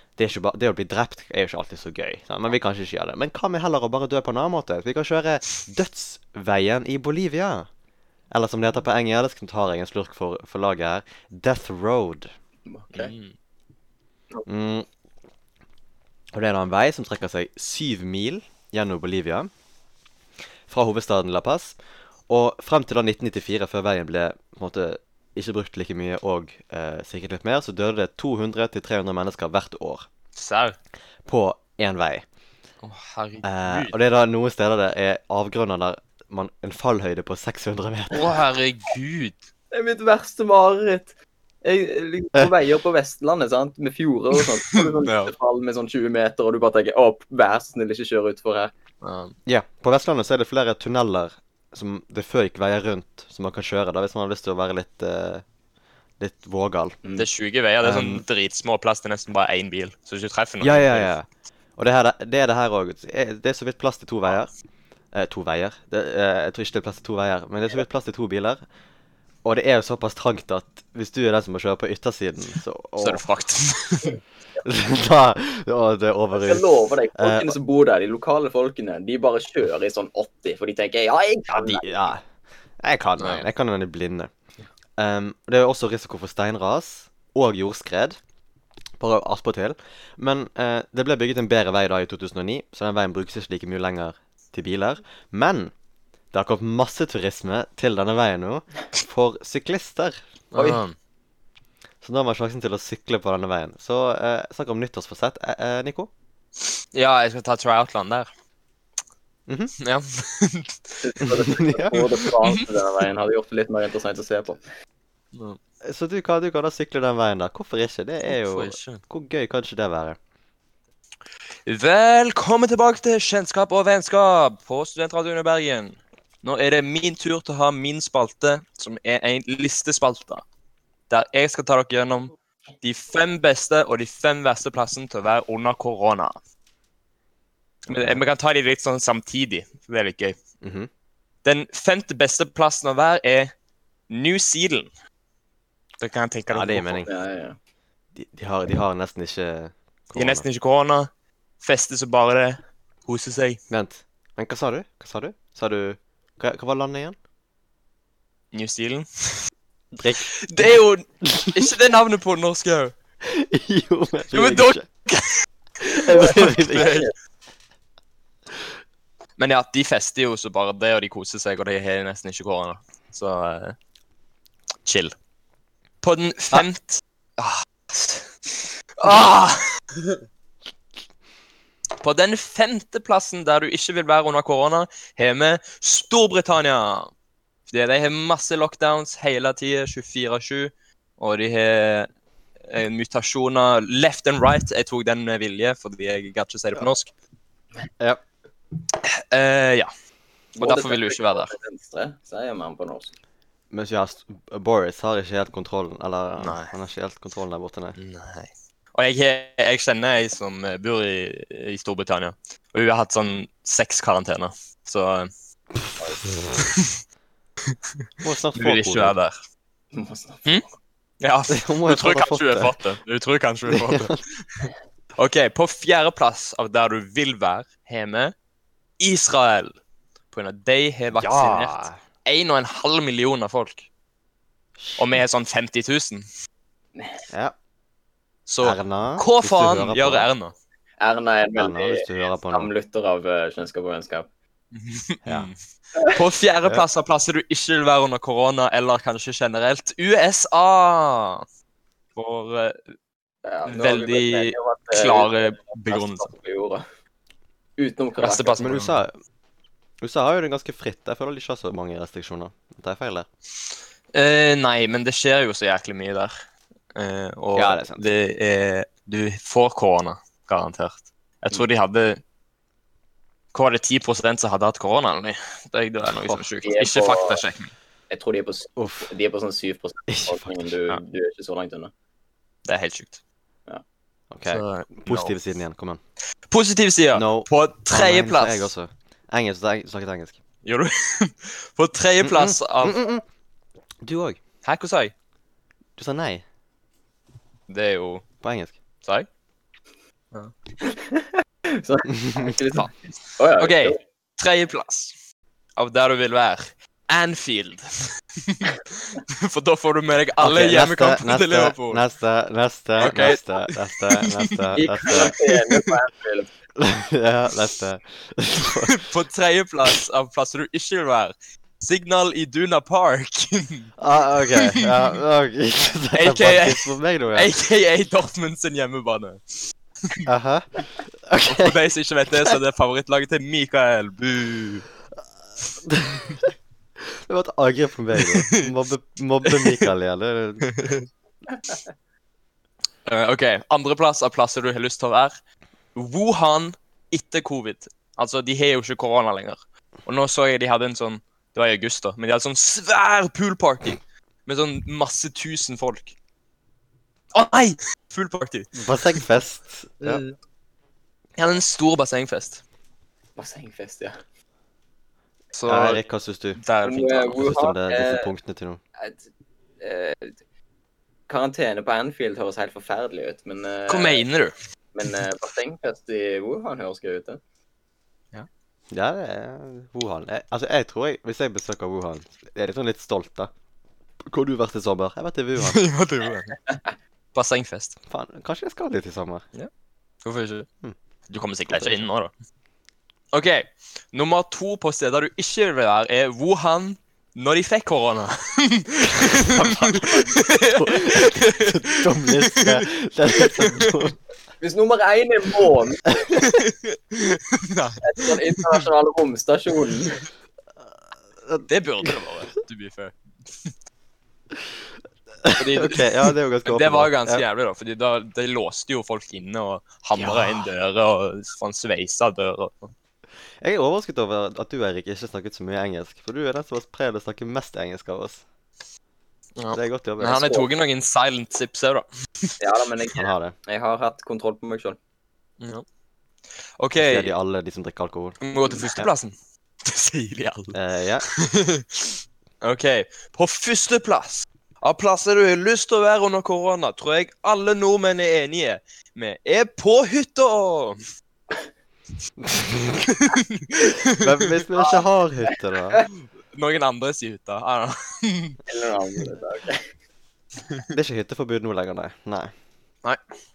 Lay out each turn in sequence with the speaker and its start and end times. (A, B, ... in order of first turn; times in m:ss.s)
0:00.2-0:07.7 A
0:08.3-0:12.3 A
0:12.6-0:13.1 B
0:12.9-0:13.3 C
0:14.4-0:14.9 A
0:16.3-0:19.5 A
0:20.7-0:21.8 A
0:22.3-0:30.1 A
0:30.3-0:30.8 C
0:31.2-0:32.2 A
0:32.8-0:33.9 C
0:33.4-0:38.3 A
0:38.1-0:39.4 C
0:39.7-0:41.1 B
0:41.6-0:48.7 B
0:44.7-0:45.3 C
0:49.0-0:49.3 C
0:49.4-0:55.4 A
0:56.2-0:57.0 A
0:57.2-1:01.1 C
0:57.8-0:58.2 A
1:00.6-1:01.2 A
1:01.8-1:04.5 A
1:05.1-1:08.6 A
1:09.4-1:13.2 A
1:13.0-1:14.2 C
1:14.6-1:17.5 A
1:16.3-1:22.1 B
1:21.5-1:22.2 A
1:22.8-1:24.3 A
1:23.2-1:23.5 C
1:25.0-1:28.2 A
1:29.0-1:35.7 A
1:36.3-1:40.2 A
1:40.5-1:40.9 C
1:40.5-1:40.8 B
1:42.0-1:46.1 A
1:46.9-1:48.3 C
1:49.5-1:49.7 A
1:49.8-1:51.3 C
1:51.0-1:54.6 B
1:51.4-1:52.1 A
1:55.8-2:00.2 A
1:58.3-1:59.0 C
2:01.6-2:10.4 C
2:11.1-2:16.4 C
2:17.9-2:20.4 C
2:17.9-2:18.2 A
2:20.6-2:20.9 A
2:21.4-2:23.5 C
2:24.1-2:24.9 C
2:26.0-2:27.1 C
2:26.5-2:27.1 A
2:27.1-2:27.6 B
2:28.1-2:30.4 A
2:30.1-2:31.1 C
2:31.6-2:33.6 C
2:33.7-2:37.2 A
2:38.5-2:39.4 C
2:40.0-2:40.3 A
2:40.3-2:42.9 C
2:43.2-2:44.8 A
2:44.3-2:45.4 C
2:45.8-2:47.0 A
2:45.9-2:47.1 C
2:46.2-2:47.1 B
2:49.4-2:53.8 C
2:54.8-2:55.1 C
2:56.0-2:58.3 C
2:59.0-2:59.6 C
3:02.0-3:07.1 C
3:07.7-3:12.1 C
3:12.7-3:17.1 C
3:18.9-3:19.9 C
3:20.5-3:21.5 C
3:20.6-3:23.1 B
3:23.7-3:28.0 A
3:26.4-3:26.7 C
3:28.0-3:35.3 C
3:36.5-3:36.9 C
3:38.2-3:39.1 A
3:38.5-3:39.4 C
3:39.9-3:40.6 B
3:41.2-3:48.3 C
3:41.5-3:42.8 A
3:43.7-3:44.2 A
3:49.0-3:49.7 C
3:50.3-3:53.9 C
3:51.1-3:52.0 A
3:54.8-3:55.1 A
3:55.0-3:56.2 C
3:57.0-3:57.2 B
3:58.5-4:00.5 C
3:58.6-4:00.3 A
4:01.0-4:04.3 B
4:01.6-4:02.7 A
4:04.7-4:11.4 C
4:05.2-4:05.5 A
4:12.2-4:12.8 C
4:13.4-4:16.8 B
4:13.7-4:16.3 C
4:17.8-4:18.6 B
4:18.2-4:18.9 C
4:18.6-4:19.1 A
4:20.0-4:23.3 A
4:24.1-4:32.2 C
4:27.5-4:28.0 A
4:33.5-4:37.7 C
4:36.0-4:36.4 A
4:36.6-4:37.4 B
4:38.1-4:41.9 B
4:38.8-4:39.1 A
4:40.1-4:40.7 A
4:42.6-4:43.2 C
4:44.3-4:46.0 A
4:44.5-4:45.3 C
4:46.5-4:48.7 C
4:47.1-4:50.4 A
4:50.6-4:53.0 C
4:52.2-4:53.2 A
4:54.0-4:54.4 A
4:54.6-4:55.1 C
4:56.0-4:56.4 A
4:57.7-4:58.2 C
4:58.4-4:58.8 A
5:00.8-5:04.0 B
5:02.2-5:02.4 A
5:03.6-5:05.2 C
5:05.8-5:12.0 C
5:10.4-5:15.3 A
5:13.0-5:15.8 C
5:14.8-5:16.5 B
5:16.8-5:19.0 A
5:18.8-5:23.9 C
5:24.0-5:27.5 A
5:24.5-5:24.9 C
5:26.1-5:30.2 C
5:30.2-5:31.8 A
5:31.4-5:34.8 C
5:35.8-5:40.8 A
5:38.2-5:38.7 C
5:39.4-5:39.9 C
5:40.7-5:41.1 C
5:43.0-5:45.3 C
5:45.9-5:56.1 C
5:57.3-5:59.2 C
5:58.7-6:00.2 A
6:00.0-6:00.3 C
6:01.4-6:02.6 C
6:03.4-6:04.2 B
6:05.5-6:06.0 C
6:05.6-6:06.6 A
6:06.6-6:07.5 C
6:06.8-6:08.3 B
6:07.4-6:08.8 A
6:09.0-6:09.2 B
6:09.8-6:10.4 B
6:11.3-6:14.2 B
6:13.9-6:14.5 C
6:14.9-6:17.4 B
6:18.9-6:23.5 A
6:24.2-6:25.8 A
6:25.6-6:26.6 C
6:27.3-6:28.0 C
6:28.1-6:29.4 A
6:30.2-6:30.7 C
6:31.3-6:32.3 C
6:31.7-6:32.0 A
6:33.3-6:42.8 C
6:39.2-6:44.2 A
6:43.4-6:43.9 C
6:44.6-6:46.1 B
6:46.4-6:48.8 C
6:48.0-6:50.2 B
6:51.4-6:52.1 A
6:51.7-6:53.7 C
6:55.4-6:57.4 A
6:55.5-7:02.9 C
7:00.2-7:00.7 A
7:03.6-7:08.4 A
7:09.6-7:12.5 C
7:09.7-7:10.6 A
7:12.6-7:15.0 B
7:13.1-7:13.5 A
7:16.8-7:17.3 C
7:17.0-7:19.1 A
7:18.4-7:31.0 C
7:20.7-7:21.2 A
7:32.4-7:33.0 A
7:33.1-7:34.5 C
7:34.1-7:36.0 A
7:36.5-7:38.6 C
7:38.7-7:39.9 B
7:40.9-7:42.5 A